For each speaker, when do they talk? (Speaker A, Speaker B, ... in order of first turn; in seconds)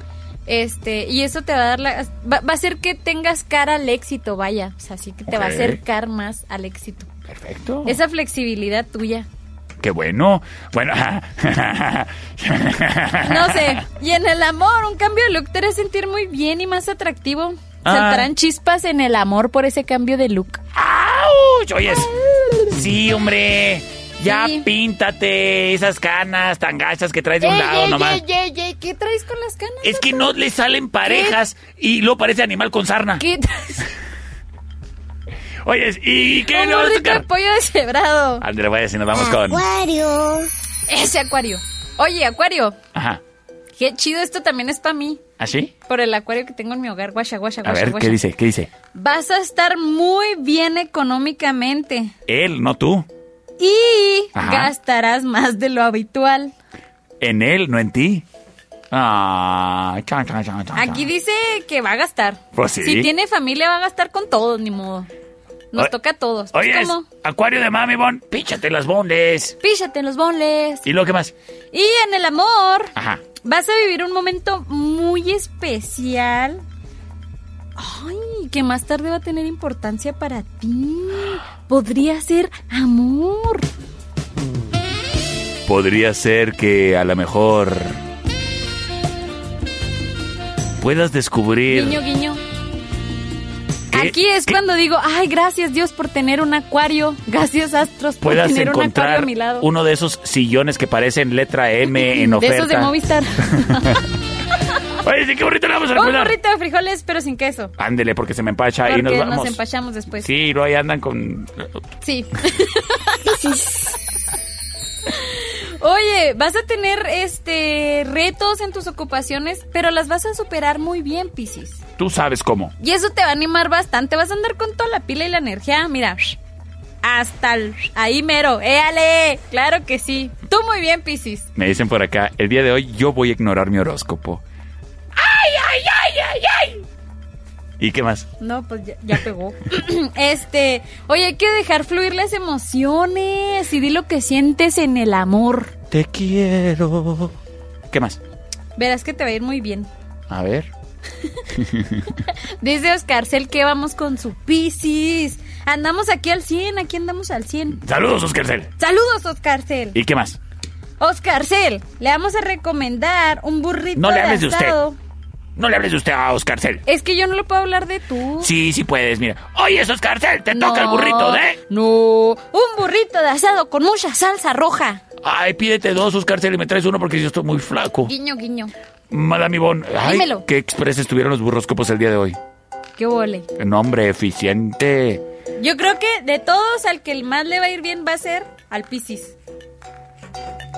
Speaker A: 0.5-7.1, 7.8-9.3, 13.2-20.6, 21.9-22.8, 24.2-24.7, 27.4-30.3, 31.0-31.4, 33.2-33.9, 36.4-38.4, 40.9-42.8, 43.8-45.2, 45.9-48.2, 48.9-52.1, 53.6-56.5, 60.7-65.1, 65.7-67.1, 69.6-70.8, 71.7-76.6, 77.8-83.7, 91.7-92.4, 93.9-99.7, 101.8-104.0, 105.9-107.7, 108.8-110.3, 112.0-114.0, 115.0-121.8, 122.8-126.4, 127.0-131.5, 138.4-145.7, 148.8-149.9, 152.1-157.8, 158.8-160.0, 161.0-165.0, 166.8-168.5, 170.5-175.0, 178.1-178.7, 180.0-180.4, 183.0-183.5, 185.6-189.3
Speaker B: 5.3-5.8, 7.3-8.0, 9.8-13.8, 17.8-18.3, 20.7-22.1, 22.7-28.2, 29.8-33.2, 35.6-37.2, 38.4-39.6, 42.9-43.2, 45.4-45.7, 47.6-48.7, 52.3-53.0, 54.3-54.7, 57.2-58.2, 58.9-61.1, 62.5-63.1, 66.5-69.5, 70.8-71.3, 73.0-73.2, 85.7-88.0, 90.8-92.0, 93.9-94.6, 98.2-102.9, 103.5-104.0, 104.9-106.3, 107.8-109.6, 110.1-111.7, 122.0-122.7, 131.6-134.4, 135.2-136.8, 137.8-138.3, 145.9-147.3, 147.9-148.2, 150.3-150.7, 151.5-152.2, 157.8-158.7, 159.9-160.4, 163.9-164.8, 165.6-166.8, 168.4-171.6, 175.2-178.1, 179.1-182.4, 183.6-185.2
Speaker C: 39.1-40.5, 113.2-113.8